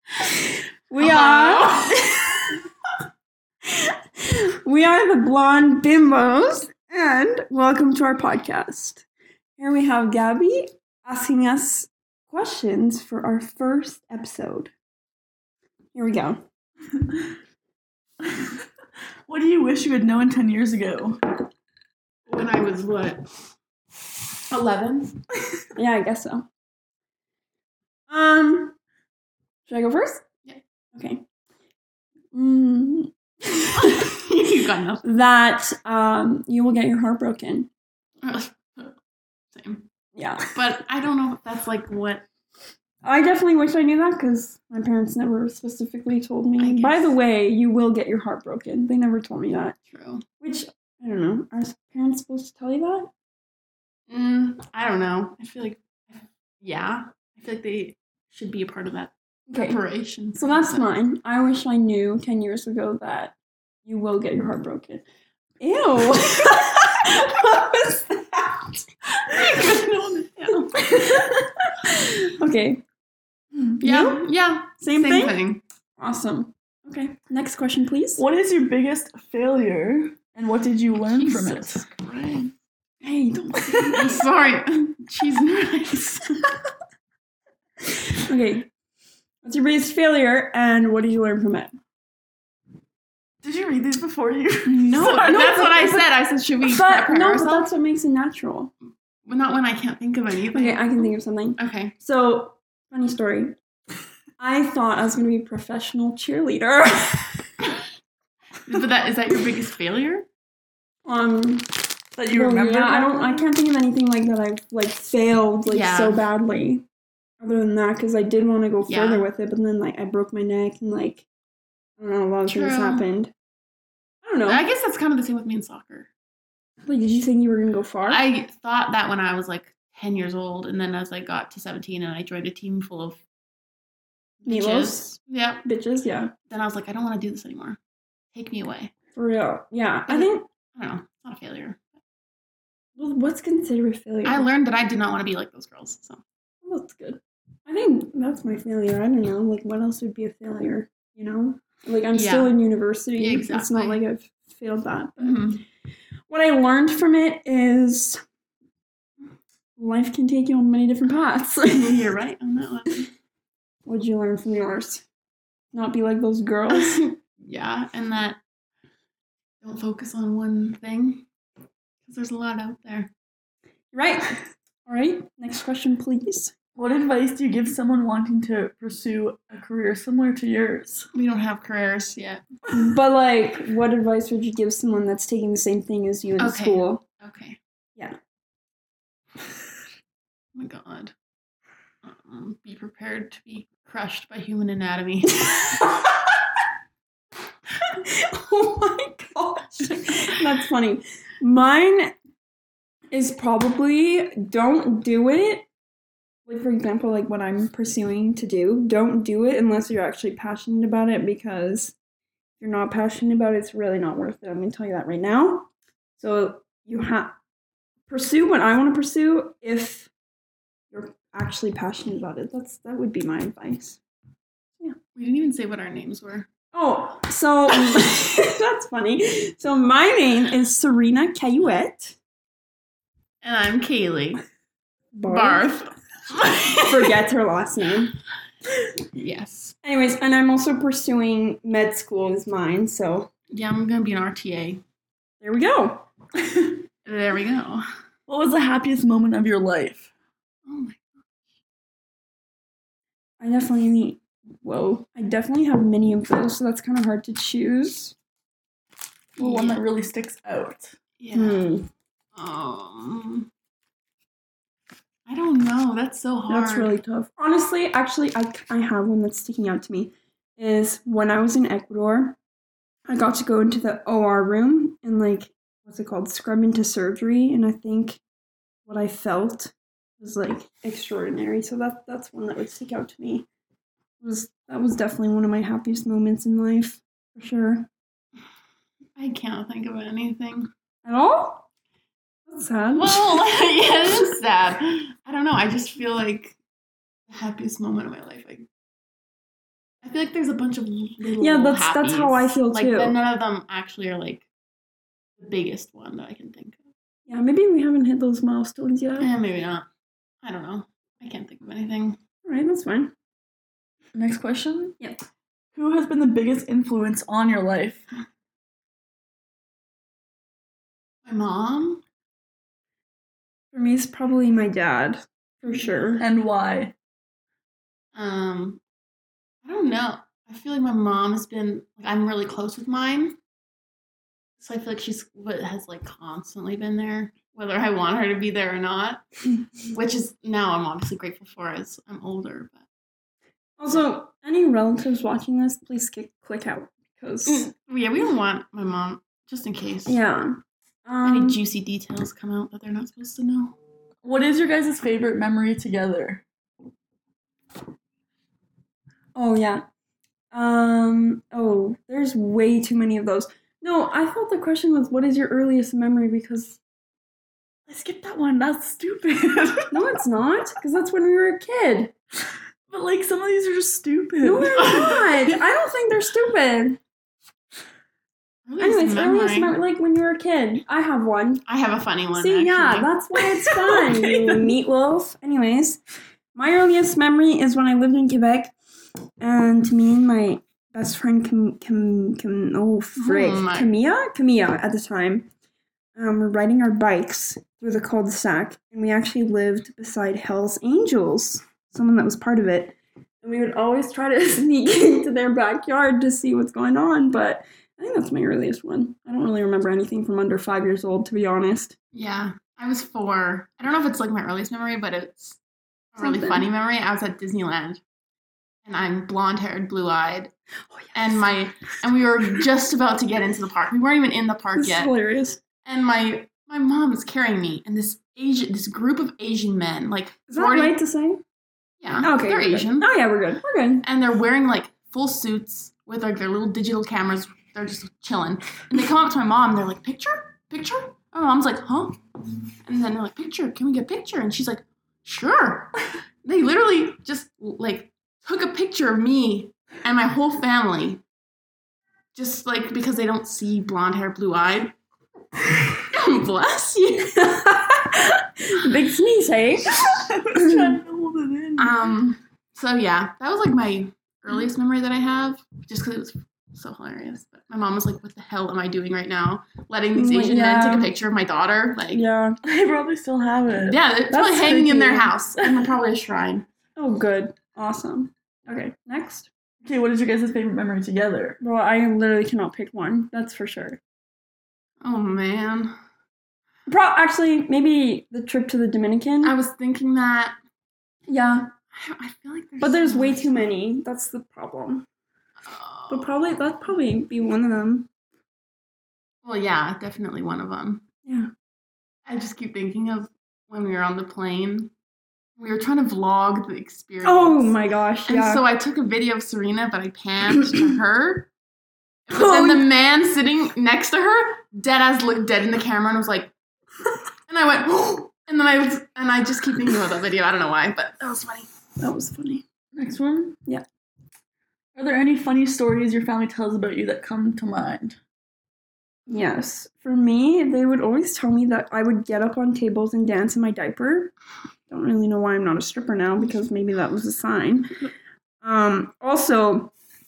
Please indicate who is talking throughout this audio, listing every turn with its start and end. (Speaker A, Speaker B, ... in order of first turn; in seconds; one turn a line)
Speaker A: 0.9-2.6
Speaker B: 1.0-2.0
Speaker A: 3.6-9.0
Speaker A: 9.6-14.7
Speaker A: 15.9-16.4
Speaker C: 16.9-17.3
Speaker C: 18.2-18.6
Speaker C: 19.3-21.2
Speaker B: 22.3-23.3
Speaker B: 24.5-25.2
Speaker A: 25.7-26.4
Speaker A: 28.1-28.8
Speaker A: 29.7-30.2
Speaker A: 30.9-31.2
Speaker A: 32.3-34.1
Speaker B: 33.8-35.1
Speaker A: 35.0-37.7
Speaker B: 38.2-39.0
Speaker B: 39.5-39.9
Speaker A: 40.1-40.5
Speaker B: 40.4-42.2
Speaker A: 43.0-49.8
Speaker B: 46.6-47.1
Speaker B: 49.9-50.2
Speaker A: 50.4-53.1
Speaker B: 54.1-60.9
Speaker A: 59.5-59.8
Speaker A: 60.4-63.3
Speaker A: 63.9-65.0
Speaker A: 65.6-69.7
Speaker B: 69.3-70.8
Speaker A: 70.7-72.8
Speaker A: 73.6-74.2
Speaker B: 73.8-75.6
Speaker A: 74.8-75.4
Speaker A: 76.0-78.2
Speaker C: 78.2-81.8
Speaker B: 81.0-82.5
Speaker A: 83.0-84.2
Speaker B: 83.7-86.4
Speaker A: 87.9-88.7
Speaker A: 89.4-91.7
Speaker C: 93.4-95.4
Speaker A: 94.7-96.1
Speaker B: 94.8-97.7
Speaker A: 96.6-98.7
Speaker B: 99.2-101.9
Speaker A: 100.5-103.5
Speaker A: 104.4-107.5
Speaker B: 108.7-110.2
Speaker A: 111.0-116.8
Speaker C: 112.2-113.5
Speaker B: 115.7-116.2
Speaker A: 117.4-121.2
Speaker B: 118.8-119.2
Speaker A: 122.0-123.3
Speaker B: 122.5-123.0
Speaker A: 124.2-124.6
Speaker B: 124.5-126.1
Speaker A: 126.8-128.2
Speaker B: 128.1-133.2
Speaker B: 134.4-135.6
Speaker A: 134.5-135.1
Speaker A: 135.6-136.3
Speaker B: 136.5-137.8
Speaker B: 138.3-138.9
Speaker A: 139.1-140.4
Speaker B: 140.1-141.8
Speaker A: 142.9-144.5
Speaker B: 144.2-146.2
Speaker A: 146.6-155.6
Speaker B: 152.1-152.6
Speaker B: 153.2-154.0
Speaker B: 155.2-155.6
Speaker A: 156.3-158.2
Speaker A: 159.8-162.1
Speaker B: 161.7-163.1
Speaker A: 163.8-165.0
Speaker A: 165.7-167.1
Speaker B: 166.7-168.4
Speaker B: 169.6-171.3
Speaker B: 172.0-173.1
Speaker A: 173.9-176.5
Speaker C: 176.8-181.1
Speaker B: 181.1-182.4
Speaker A: 182.7-187.0
Speaker B: 186.4-187.6
Speaker B: 190.5-191.1
Speaker B: 192.0-195.5
Speaker A: 195.5-195.9
Speaker A: 198.0-202.1
Speaker A: 203.1-205.7
Speaker A: 206.4-211.9
Speaker A: 212.6-215.7
Speaker A: 216.2-217.3
Speaker A: 218.1-220.1
Speaker A: 220.9-224.0
Speaker B: 225.1-226.5
Speaker A: 226.7-232.2
Speaker B: 233.4-234.4
Speaker A: 235.1-235.7
Speaker B: 235.3-237.1
Speaker A: 236.8-238.1
Speaker B: 239.1-239.8
Speaker A: 239.8-243.3
Speaker B: 243.5-244.8
Speaker A: 245.4-246.1
Speaker B: 247.0-247.9
Speaker C: 248.3-250.1
Speaker B: 250.7-251.2
Speaker A: 253.4-258.1
Speaker C: 259.4-260.9
Speaker B: 259.4-259.8
Speaker B: 261.2-261.6
Speaker A: 261.3-261.9
Speaker B: 262.3-263.5
Speaker B: 265.3-267.0
Speaker A: 266.5-272.4
Speaker A: 273.1-278.2
Speaker A: 278.9-283.5
Speaker A: 284.2-287.9
Speaker B: 289.1-290.7
Speaker A: 291.0-291.6
Speaker A: 292.5-293.5
Speaker B: 292.9-296.6
Speaker B: 297.3-298.6
Speaker B: 300.0-304.5
Speaker A: 301.4-303.2
Speaker B: 305.4-306.8
Speaker A: 307.3-309.3
Speaker B: 309.2-309.9
Speaker B: 310.4-312.2
Speaker A: 312.4-313.1
Speaker C: 314.1-314.9
Speaker C: 315.7-318.1
Speaker B: 321.2-322.0
Speaker A: 323.7-326.2
Speaker C: 326.2-326.9
Speaker B: 328.1-328.8
Speaker B: 329.6-333.4
Speaker B: 334.6-339.3
Speaker B: 339.8-342.8
Speaker A: 343.8-347.7
Speaker B: 347.4-350.2
Speaker A: 350.1-351.6
Speaker B: 351.2-353.7
Speaker C: 354.2-356.4
Speaker A: 359.3-359.8
Speaker A: 360.5-366.8
Speaker C: 367.9-370.0
Speaker A: 369.9-372.1
Speaker C: 372.9-375.6
Speaker A: 374.4-377.0
Speaker B: 378.6-379.7
Speaker A: 378.8-381.6
Speaker B: 381.7-383.1
Speaker A: 382.3-386.0
Speaker C: 383.6-384.7
Speaker A: 386.5-388.7
Speaker A: 389.4-395.5
Speaker B: 393.1-393.9
Speaker A: 396.1-411.9
Speaker B: 412.1-415.6
Speaker B: 416.1-418.0
Speaker A: 416.2-416.6
Speaker B: 418.8-420.5
Speaker A: 420.9-421.4
Speaker B: 421.1-425.1
Speaker A: 424.8-425.6
Speaker B: 425.8-430.9
Speaker A: 430.5-431.4
Speaker B: 432.0-433.1
Speaker A: 432.2-434.0
Speaker B: 434.0-442.2
Speaker B: 442.8-451.2
Speaker B: 452.3-454.9
Speaker B: 456.0-457.4
Speaker A: 457.3-461.0
Speaker C: 459.9-461.9
Speaker B: 461.8-472.2
Speaker A: 470.1-471.1
Speaker A: 472.1-472.6
Speaker C: 472.6-475.9
Speaker B: 473.8-476.6
Speaker A: 474.4-474.8
Speaker A: 476.9-479.5
Speaker C: 479.8-481.6
Speaker A: 481.6-484.0
Speaker B: 485.0-485.9
Speaker A: 486.9-489.5
Speaker B: 489.4-490.6
Speaker A: 491.3-491.7
Speaker B: 491.9-493.7
Speaker A: 492.8-495.0
Speaker B: 495.6-496.4
Speaker A: 496.1-498.1
Speaker B: 499.4-501.0
Speaker A: 501.2-501.5
Speaker B: 502.3-504.9
Speaker B: 505.6-507.8
Speaker A: 507.2-508.6
Speaker B: 508.3-511.5
Speaker B: 512.3-516.5
Speaker A: 512.3-512.9
Speaker B: 517.5-521.7
Speaker A: 522.0-522.6
Speaker C: 522.9-523.6
Speaker C: 524.9-528.2
Speaker A: 529.3-534.3
Speaker A: 534.9-538.0
Speaker A: 538.6-539.9